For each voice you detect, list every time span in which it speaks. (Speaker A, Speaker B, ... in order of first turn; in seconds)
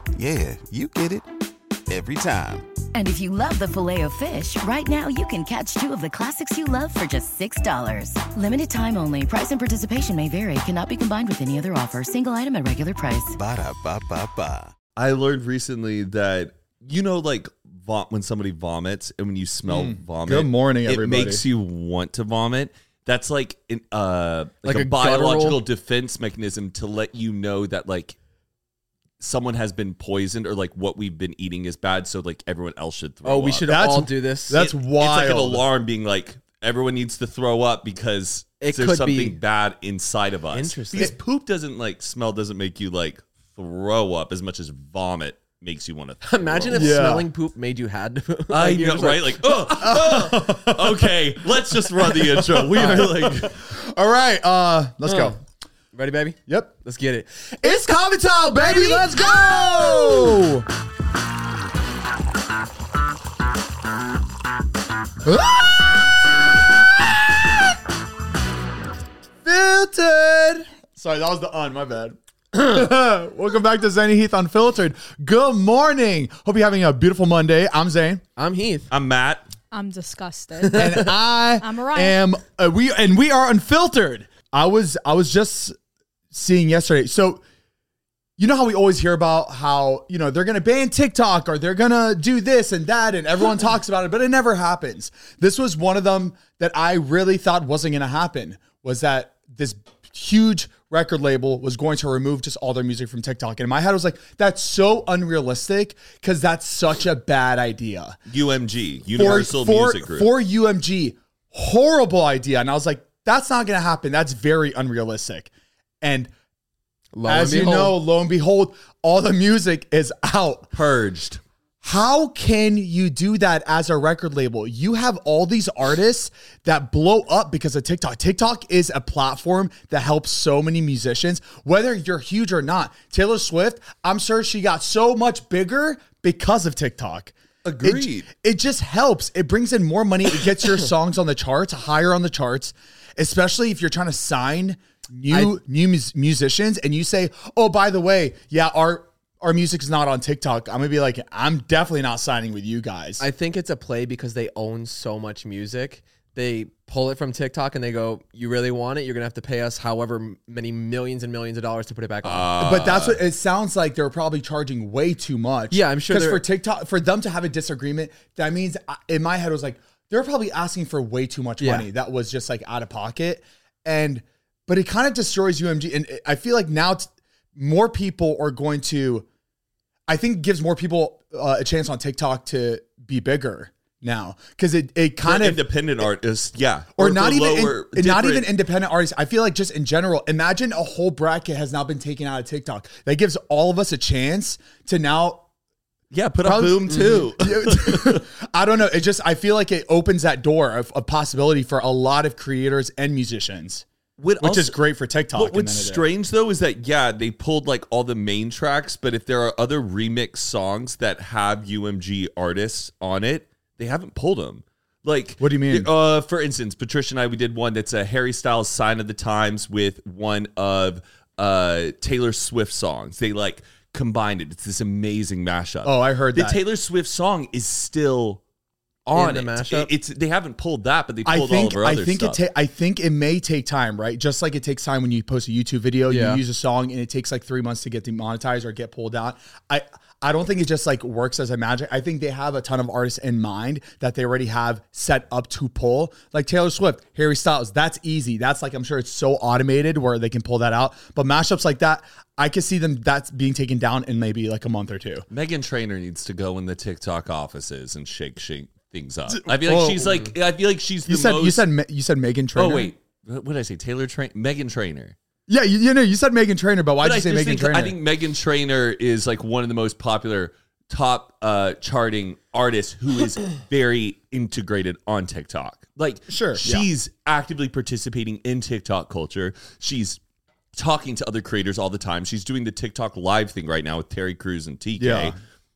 Speaker A: 0.1-1.2, 1.9-2.6, 13.3-14.7
Speaker B: 2.9-13.4
Speaker C: 14.9-28.1, 29.2-33.7, 34.5-47.0, 48.5-53.5, 78.9-79.4, 108.3-110.3, 120.7-121.4, 137.6-138.3, 162.2-163.2, 185.2-188.5, 196.1-198.2, 204.2-204.8, 205.3-228.4, 229.1-232.4, 255.3-261.7, 262.6-265.1, 267.0-280.2, 280.7-285.4
Speaker D: 19.6-21.4, 33.6-35.6, 46.7-47.3, 49.6-55.4, 56.5-56.7, 57.6-60.7, 65.2-67.7, 69.4-78.2, 80.7-85.8, 86.3-87.4, 88.4-108.2, 109.1-115.5, 116.0-116.3, 117.2-120.7, 121.8-153.2, 162.6-179.2, 180.1-186.1, 187.0-195.4, 196.4-203.8, 204.4-206.1, 215.4-215.9, 225.8-226.6, 231.2-255.2, 259.3-260.3, 261.0-262.9, 265.5-268.0, 276.3-276.9, 285.0-285.4
Speaker E: 24.6-25.6, 33.2-34.6, 38.6-39.4, 40.5-41.1, 46.2-49.4, 55.0-55.4, 55.9-57.6, 78.4-78.9, 80.6-81.1, 117.1-118.0, 153.2-162.6, 165.7-166.4, 171.6-171.9, 196.9-197.2, 229.1-229.9, 236.1-236.4
Speaker F: 58.6-60.4, 79.7-82.2